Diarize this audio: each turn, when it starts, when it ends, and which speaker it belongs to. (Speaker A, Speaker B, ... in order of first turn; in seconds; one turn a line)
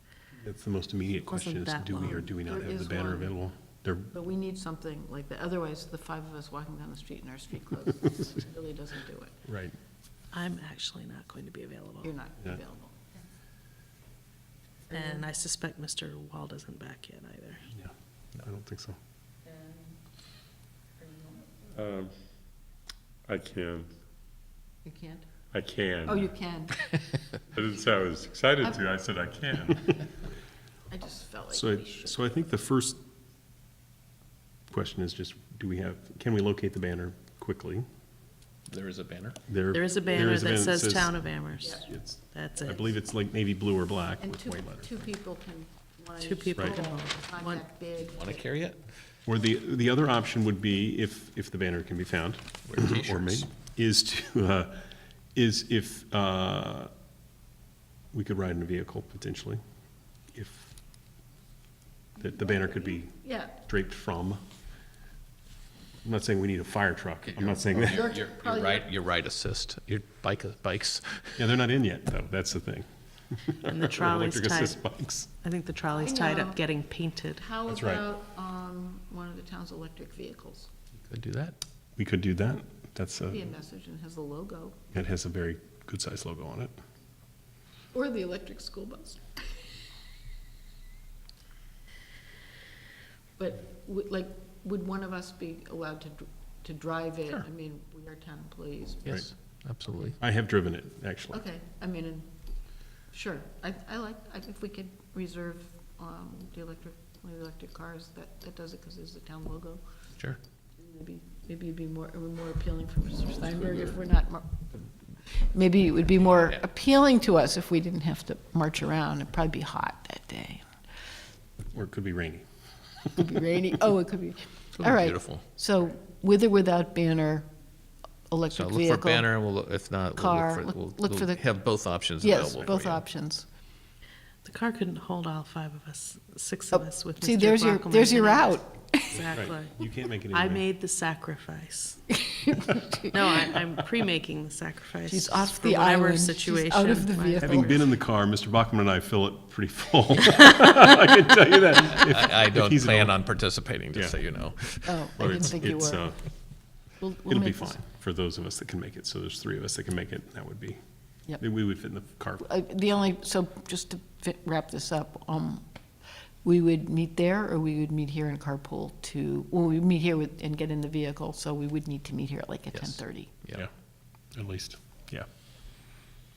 Speaker A: 0.4-4.1
Speaker B: 1.2-2.3
Speaker C: 2.3-3.4
Speaker C: 4.1-9.4
Speaker A: 9.4-9.8
Speaker B: 10.3-12.1
Speaker C: 12.0-13.0
Speaker B: 14.9-17.7
Speaker A: 17.8-19.0
Speaker D: 21.7-22.1
Speaker D: 23.3-23.9
Speaker C: 24.8-25.2
Speaker D: 25.5-26.3
Speaker C: 26.1-26.8
Speaker D: 27.5-29.9
Speaker C: 30.9-32.1
Speaker A: 31.5-33.0
Speaker A: 34.7-37.9
Speaker E: 38.7-39.4
Speaker A: 39.5-41.2
Speaker B: 39.7-42.8
Speaker A: 41.8-45.0
Speaker C: 44.2-48.4
Speaker B: 46.2-47.6
Speaker A: 46.5-46.8
Speaker E: 48.1-48.8
Speaker A: 49.3-54.8
Speaker E: 52.6-53.5
Speaker A: 55.3-56.9
Speaker A: 58.1-59.6
Speaker A: 60.3-60.7
Speaker A: 62.2-64.4
Speaker C: 62.5-63.6
Speaker A: 66.0-68.1
Speaker E: 67.2-71.5
Speaker C: 67.9-68.9
Speaker A: 71.4-72.8
Speaker A: 73.4-75.3
Speaker B: 73.6-74.8
Speaker B: 75.4-77.5
Speaker C: 75.9-76.6
Speaker C: 77.4-80.7
Speaker A: 77.7-78.0
Speaker E: 81.1-81.5
Speaker A: 82.0-83.5
Speaker C: 83.3-84.8
Speaker A: 84.9-86.7
Speaker C: 87.9-89.2
Speaker C: 93.4-99.2
Speaker E: 99.0-100.2
Speaker A: 100.2-101.4
Speaker C: 101.3-102.3
Speaker C: 103.1-109.8
Speaker C: 110.8-114.8
Speaker C: 115.3-120.7
Speaker E: 116.3-116.6
Speaker A: 121.7-122.5
Speaker C: 123.1-127.5
Speaker E: 124.8-125.4
Speaker C: 128.3-129.3
Speaker E: 128.5-133.0
Speaker C: 130.2-131.5
Speaker C: 132.2-133.4
Speaker B: 134.4-138.6
Speaker C: 136.7-139.3
Speaker B: 139.1-139.8
Speaker A: 139.3-140.6
Speaker B: 140.3-142.0
Speaker C: 142.1-143.1
Speaker B: 143.1-147.7
Speaker C: 145.1-147.8
Speaker A: 147.4-153.2
Speaker E: 151.8-155.4
Speaker C: 154.8-156.0
Speaker A: 155.2-156.2
Speaker C: 157.0-157.8
Speaker A: 157.3-160.8
Speaker A: 161.4-162.4
Speaker C: 162.4-165.7
Speaker C: 166.4-173.3
Speaker E: 172.7-173.7
Speaker A: 174.3-175.2